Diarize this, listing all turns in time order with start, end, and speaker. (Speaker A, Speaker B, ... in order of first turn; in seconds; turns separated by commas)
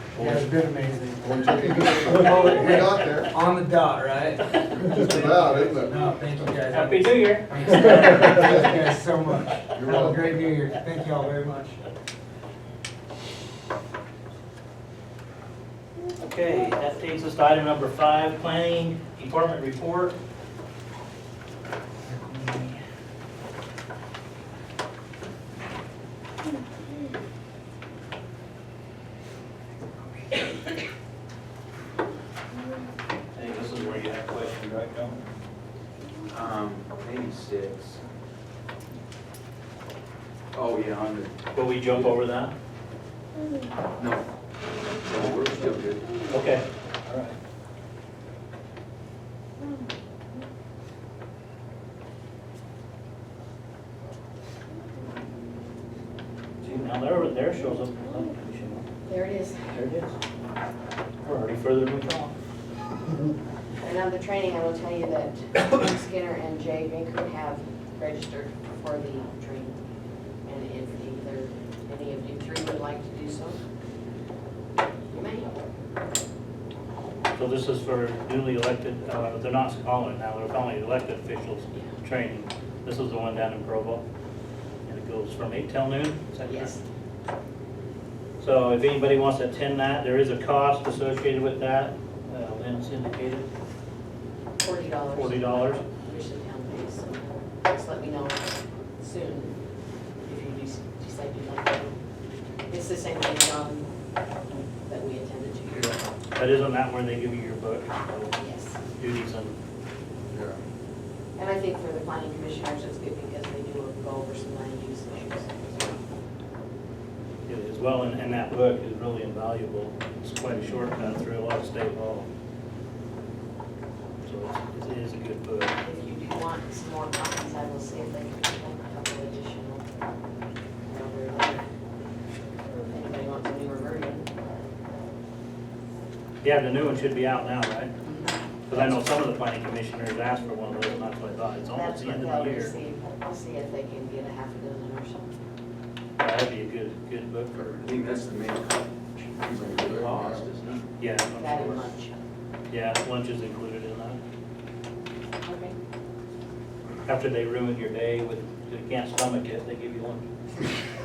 Speaker A: 0.1-0.4, Speaker B: 0.2-11.8, Speaker C: 1.2-3.3, Speaker C: 4.7-6.1, Speaker A: 4.9-5.7, Speaker A: 6.7-8.3, Speaker C: 7.9-8.7, Speaker C: 9.7-10.4, Speaker A: 16.2-20.1, Speaker A: 22.2-22.7, Speaker A: 33.3-35.2, Speaker D: 36.3-38.0, Speaker D: 40.5-41.4, Speaker A: 41.5-42.5, Speaker D: 41.9-42.2, Speaker D: 44.0-44.2, Speaker D: 44.8-46.1, Speaker A: 46.3-47.4, Speaker A: 56.6-58.9, Speaker E: 59.1-59.7, Speaker A: 59.7-60.2, Speaker A: 61.2-62.3, Speaker E: 63.8-69.8, Speaker E: 70.5-73.6, Speaker E: 75.1-75.6, Speaker A: 77.4-84.0, Speaker A: 84.9-86.7, Speaker E: 86.5-86.8, Speaker A: 88.4-93.5, Speaker E: 94.6-99.6, Speaker A: 95.1-95.8, Speaker E: 100.2-102.0, Speaker E: 102.7-103.9, Speaker E: 104.5-105.9, Speaker A: 106.3-108.4, Speaker E: 108.4-108.8, Speaker A: 109.0-109.6, Speaker C: 110.3-110.6, Speaker E: 111.4-116.0, Speaker A: 117.5-122.3, Speaker A: 124.2-125.8, Speaker E: 125.8-129.8, Speaker E: 130.9-131.7, Speaker E: 132.9-134.3, Speaker A: 136.4-137.9, Speaker E: 138.0-138.4, Speaker A: 138.7-142.7, Speaker E: 141.7-145.3, Speaker A: 146.2-147.5, Speaker D: 147.6-150.9, Speaker C: 149.6-150.4, Speaker A: 151.0-151.9, Speaker E: 151.4-152.1, Speaker A: 152.7-154.2, Speaker E: 155.4-155.8, Speaker A: 157.1-160.2